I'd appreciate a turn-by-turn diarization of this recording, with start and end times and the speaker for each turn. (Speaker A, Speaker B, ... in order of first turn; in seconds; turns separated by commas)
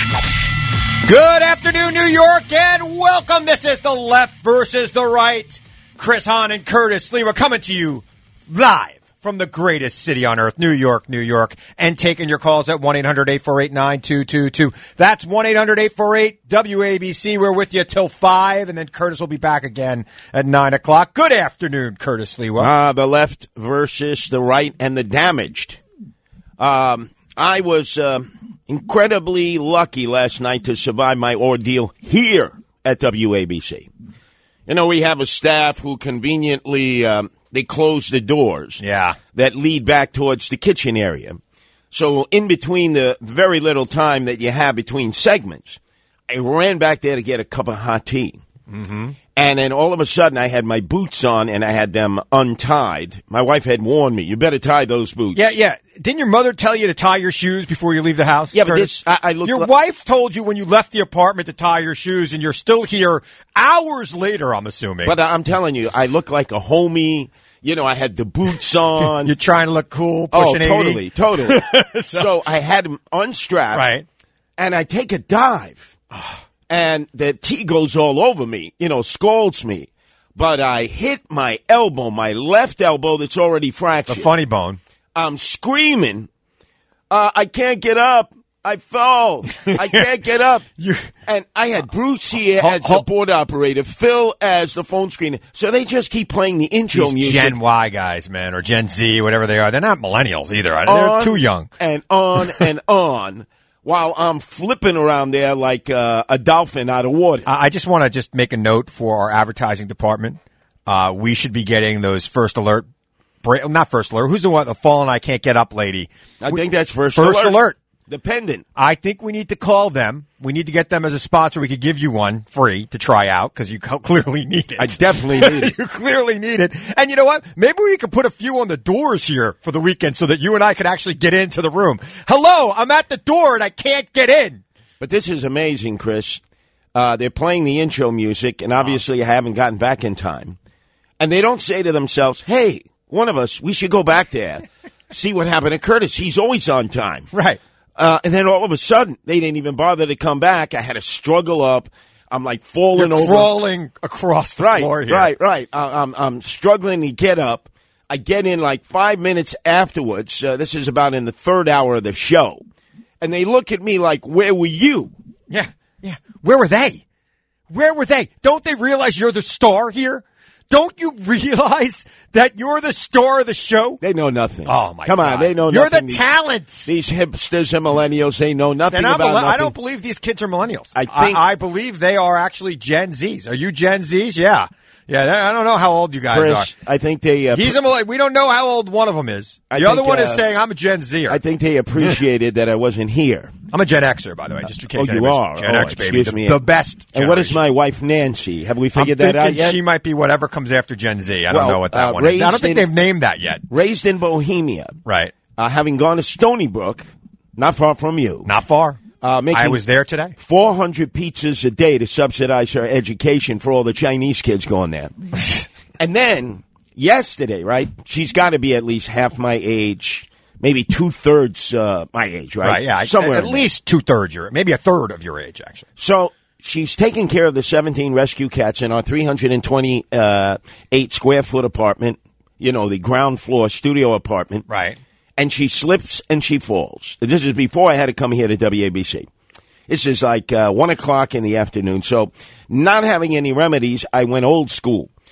Speaker A: 1.0-22.7, Speaker B: 22.6-25.8, Speaker B: 26.6-33.9, Speaker B: 34.7-38.8, Speaker A: 38.8-39.2, Speaker B: 39.3-41.4, Speaker B: 41.9-48.4, Speaker A: 48.7-49.1, Speaker B: 49.3-55.5, Speaker A: 55.3-65.1, Speaker B: 58.5-59.7, Speaker B: 65.0-69.3, Speaker A: 69.0-72.3, Speaker B: 70.3-71.6, Speaker B: 72.1-73.9, Speaker A: 73.7-74.0, Speaker B: 74.6-75.9, Speaker A: 76.1-76.4, Speaker B: 76.7-84.3, Speaker A: 84.1-84.8, Speaker B: 85.2-86.3, Speaker B: 87.1-90.6, Speaker A: 89.6-90.1, Speaker A: 90.8-91.1, Speaker B: 91.2-97.6, Speaker A: 92.6-93.0, Speaker A: 96.9-101.7, Speaker B: 100.8-107.5, Speaker A: 107.5-112.9, Speaker A: 113.4-116.6, Speaker B: 116.4-118.6, Speaker A: 117.1-117.8, Speaker A: 118.8-134.6, Speaker B: 124.8-125.7, Speaker B: 135.0-136.4, Speaker B: 136.9-140.6, Speaker B: 141.2-147.3, Speaker A: 147.3-147.6, Speaker B: 148.0-153.5, Speaker A: 152.9-155.3, Speaker B: 154.6-162.6, Speaker B: 163.2-165.1, Speaker A: 165.5-167.0, Speaker A: 167.7-174.0, Speaker B: 174.0-176.2, Speaker A: 174.7-176.9, Speaker B: 176.8-179.7, Speaker A: 178.9-186.7, Speaker B: 180.9-181.4, Speaker B: 186.3-187.8, Speaker A: 187.5-191.4, Speaker B: 189.7-190.4, Speaker B: 191.3-193.5, Speaker A: 193.7-197.6, Speaker B: 194.9-196.6, Speaker B: 197.1-199.8, Speaker A: 198.9-203.6, Speaker B: 201.5-202.9, Speaker B: 203.7-205.0, Speaker A: 205.0-205.3, Speaker B: 205.6-208.5, Speaker A: 208.4-210.3, Speaker B: 209.2-209.8, Speaker B: 210.4-215.1, Speaker A: 215.4-215.7, Speaker B: 216.0-223.7, Speaker A: 222.6-225.9, Speaker B: 226.0-234.7, Speaker A: 234.7-235.0, Speaker B: 235.4-239.3, Speaker B: 239.9-245.1